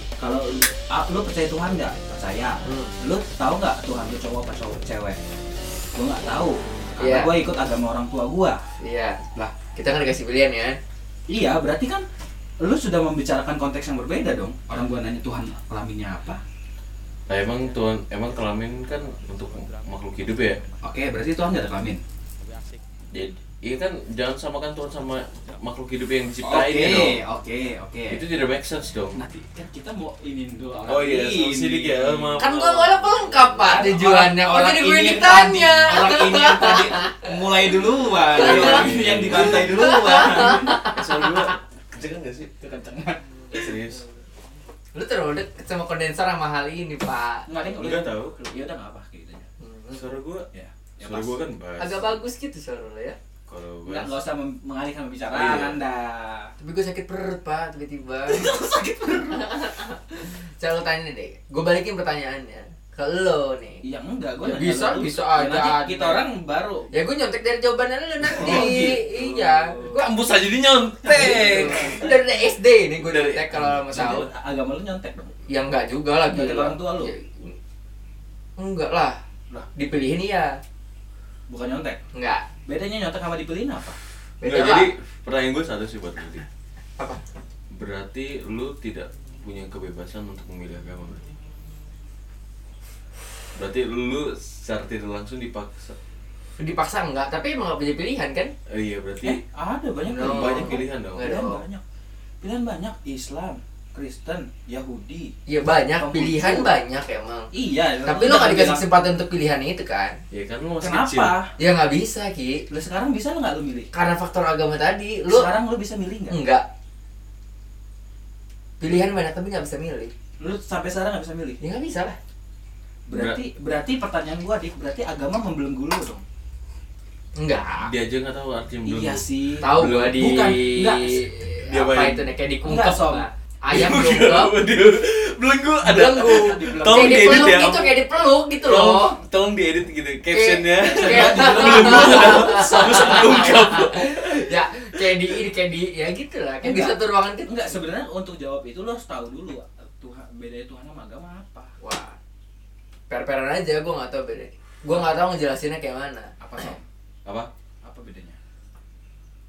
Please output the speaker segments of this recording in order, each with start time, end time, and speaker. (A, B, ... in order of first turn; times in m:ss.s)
0:00.2-0:05.2 A
0:02.6-0:02.9 B
0:06.0-0:08.6 A
0:07.0-0:07.3 B
0:08.8-0:10.8 B
0:11.3-0:12.1 A
0:12.6-0:16.4 A
0:17.3-0:20.6 C
0:20.8-0:22.0 A
0:23.1-0:27.2 C
0:26.4-0:28.2 A
0:28.1-0:29.3 C
0:29.1-0:32.4 A
0:30.8-0:33.4 C
0:32.4-0:41.5 B
0:33.6-0:40.8 A
0:38.3-0:42.5 C
0:42.6-0:43.7 A
0:43.5-0:44.0 C
0:45.0-0:47.5 B
0:47.5-0:49.5 A
0:47.7-0:48.4 C
0:49.6-0:50.0 B
0:50.0-0:50.5 C
0:50.5-0:51.4 A
0:51.0-0:52.2 C
0:51.8-0:53.2 B
0:53.5-0:54.1 C
0:53.9-0:56.5 A
0:55.3-0:55.8 C
0:56.6-0:58.6 B
0:58.3-0:59.5 A
0:59.3-1:03.8 B
1:03.8-1:06.9 A
1:04.4-1:06.3 B
1:06.9-1:10.0 B
1:08.3-1:10.0 A
1:08.4-1:08.7 C
1:09.9-1:12.0 C
1:11.0-1:12.2 A
1:11.1-1:14.3 B
1:13.0-1:14.3 C
1:13.7-1:15.4 A
1:15.5-1:17.6 B
1:16.3-1:17.1 A
1:18.6-1:20.6 B
1:21.5-1:22.0 A
1:22.1-1:22.5 B
1:22.6-1:24.0 A
1:24.4-1:24.9 B
1:24.4-1:26.5 C
1:27.7-1:31.3 C
1:33.6-1:36.0 C
1:36.6-1:38.5 B
1:38.7-1:39.4 C
1:39.2-1:41.8 A
1:40.0-1:41.6 B
1:40.2-1:41.4 C
1:42.4-1:45.3 A
1:45.5-1:47.5 B
1:46.0-1:46.7 A
1:47.5-1:48.8 A
1:48.0-1:50.2 B
1:50.3-1:51.3 C
1:50.8-1:51.5 A
1:51.6-1:52.6 B
1:52.7-1:53.9 A
1:53.9-1:55.5 B
1:55.3-1:56.4 A
1:56.3-1:56.7 B
1:58.8-2:00.1 B
2:00.4-2:01.6 A
2:01.6-2:02.2 B
2:03.1-2:06.2 A
2:03.1-2:03.4 C
2:07.4-2:07.9 B
2:07.8-2:10.3 C
2:08.9-2:11.2 A
2:09.6-2:14.6 B
2:11.7-2:12.3 C
2:12.6-2:13.2 A
2:13.7-2:18.0 C
2:15.8-2:19.2 B
2:16.2-2:17.7 A
2:18.6-2:25.4 C
2:20.3-2:27.8 B
2:20.8-2:22.7 A
2:26.6-2:31.7 A
2:31.8-2:32.2 B
2:33.1-2:36.8 B
2:36.4-2:36.9 A
2:37.8-2:38.4 A